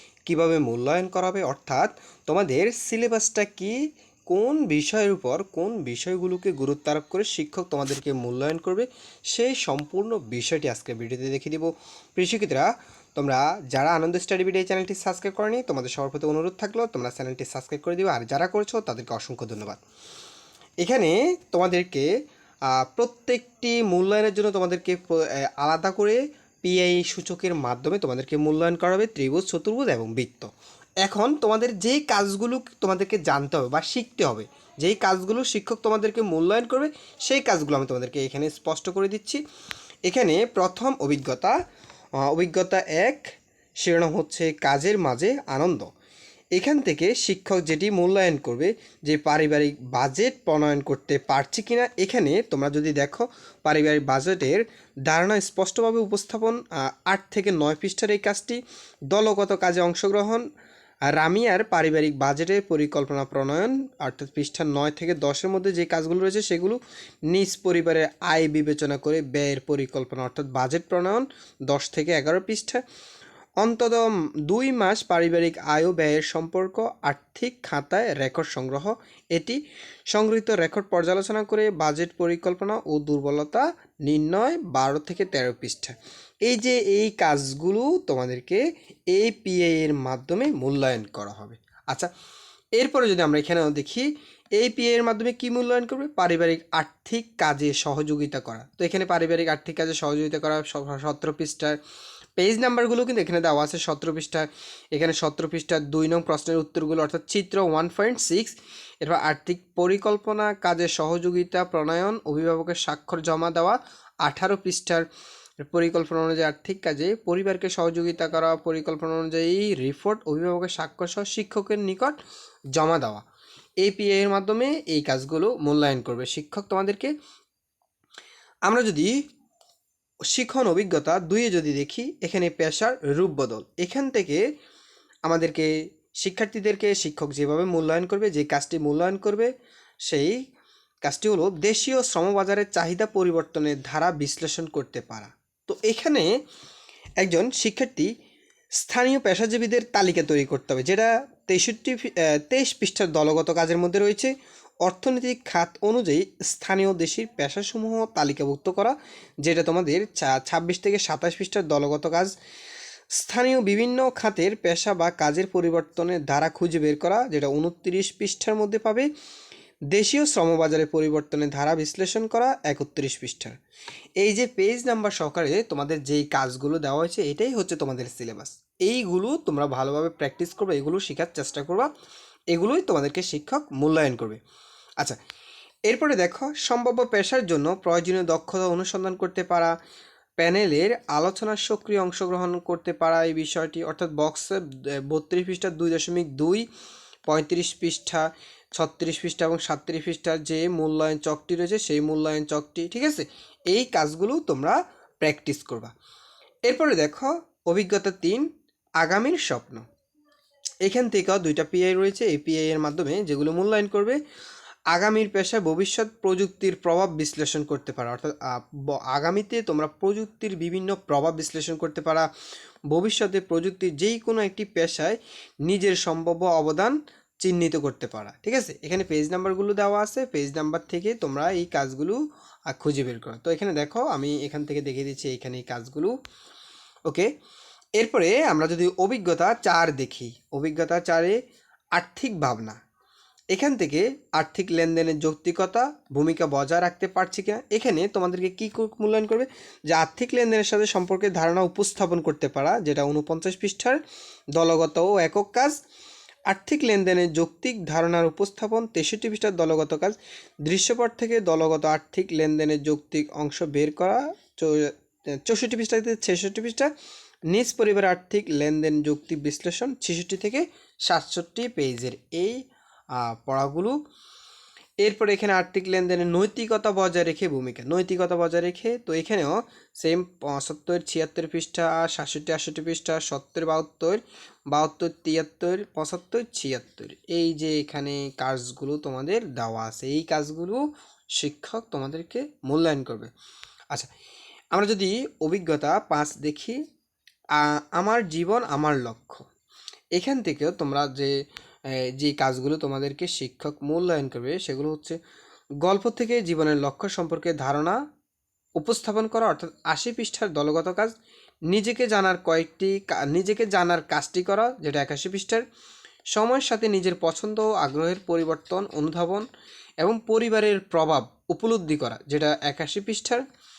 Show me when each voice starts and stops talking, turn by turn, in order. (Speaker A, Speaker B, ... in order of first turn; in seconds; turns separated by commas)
Speaker A: 0.3-3.8, Speaker A: 4.3-19.8, Speaker A: 20.8-22.1, Speaker A: 22.6-30.5, Speaker A: 31.0-39.4, Speaker A: 40.0-41.5, Speaker A: 42.2-43.3, Speaker A: 43.8-45.9, Speaker A: 46.5-60.5, Speaker A: 61.1-72.8, Speaker A: 73.6-92.1, Speaker A: 92.8-101.8, Speaker A: 102.4-115.0, Speaker A: 115.6-122.2, Speaker A: 122.8-123.2, Speaker A: 123.8-127.1, Speaker A: 128.7-129.1, Speaker A: 130.3-134.4, Speaker A: 135.2-135.7, Speaker A: 136.2-139.5, Speaker A: 140.1-140.4, Speaker A: 141.0-146.3, Speaker A: 147.2-148.1, Speaker A: 148.8-154.3, Speaker A: 154.8-162.3, Speaker A: 163.1-169.1, Speaker A: 169.9-173.6, Speaker A: 174.2-181.9, Speaker A: 182.5-184.4, Speaker A: 185.9-189.7, Speaker A: 190.4-196.6, Speaker A: 197.3-205.9, Speaker A: 206.7-208.5, Speaker A: 209.0-209.8, Speaker A: 210.8-214.2, Speaker A: 214.9-222.3, Speaker A: 222.9-236.2, Speaker A: 238.0-241.4, Speaker A: 242.0-242.8, Speaker A: 243.5-254.0, Speaker A: 254.6-255.8, Speaker A: 256.5-264.9, Speaker A: 265.4-266.9, Speaker A: 267.5-272.6, Speaker A: 273.1-274.0, Speaker A: 275.0-290.8, Speaker A: 291.4-293.3, Speaker A: 294.7-296.8, Speaker A: 297.6-299.5, Speaker A: 300.1-301.3, Speaker A: 302.2-305.2, Speaker A: 305.8-308.0, Speaker A: 308.8-311.1, Speaker A: 311.7-315.6, Speaker A: 316.3-319.4, Speaker A: 320.0-323.4